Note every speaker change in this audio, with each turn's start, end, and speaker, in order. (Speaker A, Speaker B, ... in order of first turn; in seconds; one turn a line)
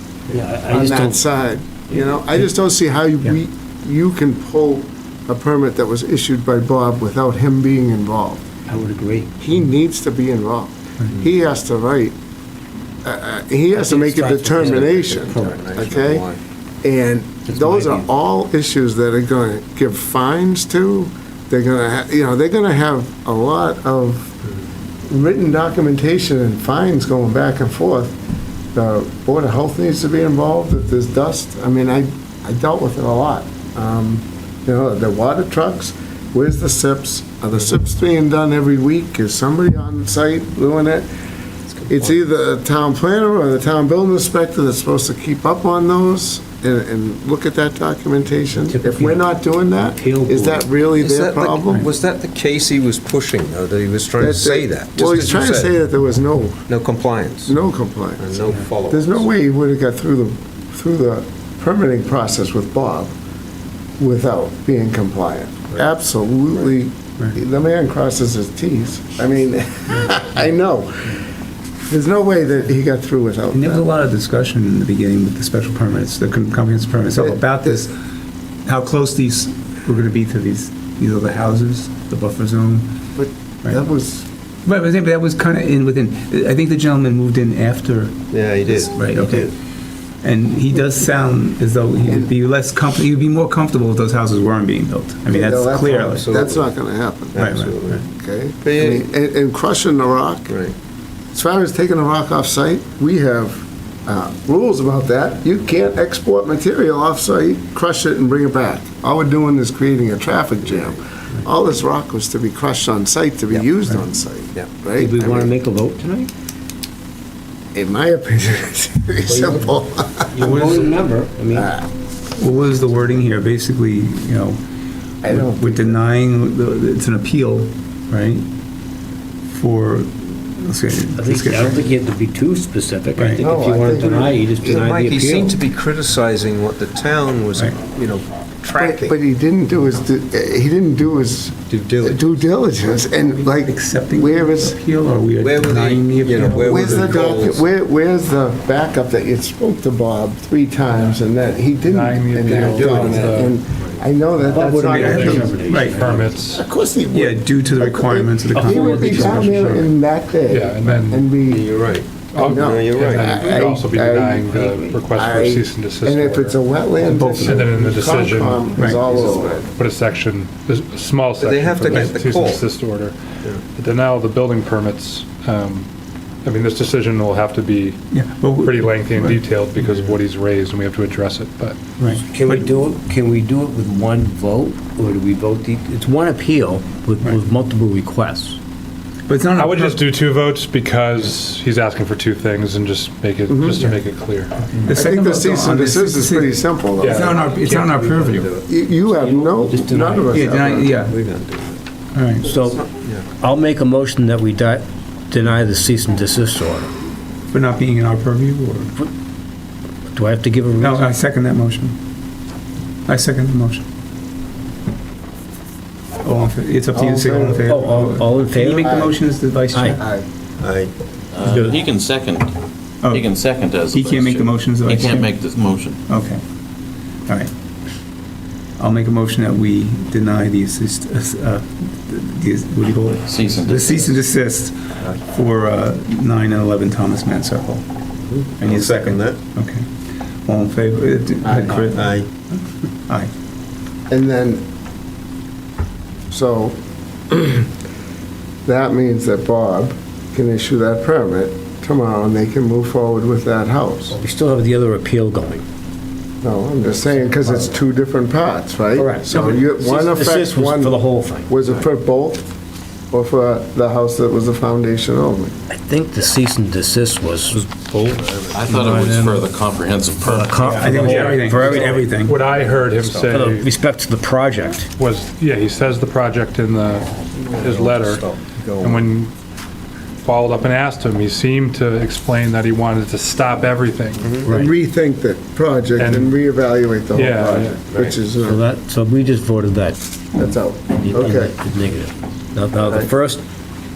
Speaker A: 0.3-1.2
Speaker B: 0.7-8.5
Speaker A: 8.7-9.3
Speaker B: 9.4-12.1
Speaker B: 13.0-16.2
Speaker A: 13.7-15.6
Speaker C: 14.5-16.4
Speaker B: 16.8-24.4
Speaker A: 17.5-18.0
Speaker B: 25.1-28.2
Speaker B: 28.7-41.0
Speaker B: 41.9-51.9
Speaker A: 48.6-49.2
Speaker A: 49.8-50.6
Speaker C: 51.0-55.7
Speaker B: 54.2-56.6
Speaker C: 56.7-57.5
Speaker B: 57.5-63.1
Speaker C: 58.2-59.2
Speaker B: 64.0-71.2
Speaker D: 69.9-70.3
Speaker B: 71.9-73.8
Speaker D: 73.5-77.9
Speaker B: 77.2-77.8
Speaker D: 78.6-83.0
Speaker B: 83.1-84.3
Speaker D: 84.7-89.5
Speaker C: 88.3-89.5
Speaker D: 90.2-96.3
Speaker B: 95.3-97.5
Speaker C: 96.1-96.7
Speaker C: 97.3-98.0
Speaker D: 97.3-98.0
Speaker B: 98.0-100.5
Speaker C: 98.6-99.0
Speaker C: 100.5-100.7
Speaker B: 101.3-115.5
Speaker A: 114.9-116.3
Speaker B: 117.7-120.4
Speaker A: 119.3-119.7
Speaker A: 120.3-121.7
Speaker D: 120.4-121.0
Speaker B: 121.5-121.8
Speaker D: 122.3-124.6
Speaker B: 125.2-126.0
Speaker D: 125.2-128.5
Speaker D: 129.5-131.9
Speaker A: 131.2-135.6
Speaker D: 133.2-133.4
Speaker B: 133.4-134.5
Speaker C: 134.6-139.1
Speaker B: 138.7-144.8
Speaker C: 141.7-142.2
Speaker D: 143.0-147.3
Speaker C: 145.4-147.7
Speaker B: 146.4-155.5
Speaker E: 151.8-153.6
Speaker C: 152.5-154.0
Speaker A: 154.4-156.1
Speaker D: 154.9-156.0
Speaker E: 154.9-156.7
Speaker B: 156.5-161.7
Speaker D: 157.1-159.9
Speaker A: 158.5-159.8
Speaker E: 160.5-161.3
Speaker C: 161.5-163.4
Speaker E: 162.3-175.9
Speaker B: 162.3-169.6
Speaker D: 167.1-167.7
Speaker D: 168.7-169.1
Speaker C: 169.0-169.7
Speaker C: 171.4-172.7
Speaker E: 176.4-178.0
Speaker D: 178.1-180.2
Speaker E: 178.6-181.8
Speaker D: 182.0-182.7
Speaker A: 182.3-188.6
Speaker D: 189.3-190.1
Speaker E: 189.6-194.5
Speaker B: 193.5-193.9
Speaker D: 194.8-198.5
Speaker B: 194.9-197.4
Speaker E: 197.0-197.4
Speaker C: 197.2-198.7
Speaker B: 198.7-200.9
Speaker A: 199.2-200.3
Speaker D: 200.3-201.1
Speaker C: 200.9-201.8
Speaker D: 202.1-202.5
Speaker C: 202.4-203.3
Speaker A: 202.4-202.8
Speaker A: 203.3-206.9
Speaker D: 207.5-208.9
Speaker A: 210.1-211.0
Speaker D: 210.8-212.0
Speaker D: 213.1-213.8
Speaker D: 216.2-220.0
Speaker B: 216.9-218.0
Speaker A: 217.6-219.0
Speaker B: 218.8-219.1
Speaker A: 219.7-220.0
Speaker B: 219.9-220.2
Speaker C: 220.6-220.9
Speaker F: 221.3-222.5
Speaker D: 223.0-223.3
Speaker F: 223.1-226.0
Speaker D: 223.9-225.3
Speaker D: 226.1-226.4
Speaker D: 228.8-237.9
Speaker F: 233.2-234.2
Speaker D: 238.6-239.8
Speaker C: 238.6-239.4
Speaker D: 240.4-243.3
Speaker B: 241.4-242.0
Speaker C: 241.9-242.3
Speaker B: 244.1-244.6
Speaker B: 246.3-246.8
Speaker B: 247.3-247.7
Speaker B: 248.7-254.2
Speaker A: 254.1-255.6
Speaker B: 256.4-262.5
Speaker A: 258.9-261.8
Speaker B: 263.1-265.5
Speaker A: 265.7-269.4
Speaker C: 268.4-269.2
Speaker F: 268.5-270.6
Speaker A: 270.2-272.4
Speaker D: 270.6-272.4
Speaker E: 270.8-273.6
Speaker C: 272.5-273.6
Speaker A: 273.3-274.9
Speaker E: 275.0-279.3
Speaker C: 277.3-279.1
Speaker E: 280.2-284.4
Speaker C: 284.2-284.6
Speaker A: 284.5-284.7
Speaker B: 284.5-288.6
Speaker E: 286.0-286.3
Speaker E: 287.1-287.8
Speaker C: 287.9-288.3
Speaker A: 288.4-290.0
Speaker B: 290.3-291.6
Speaker A: 291.0-293.4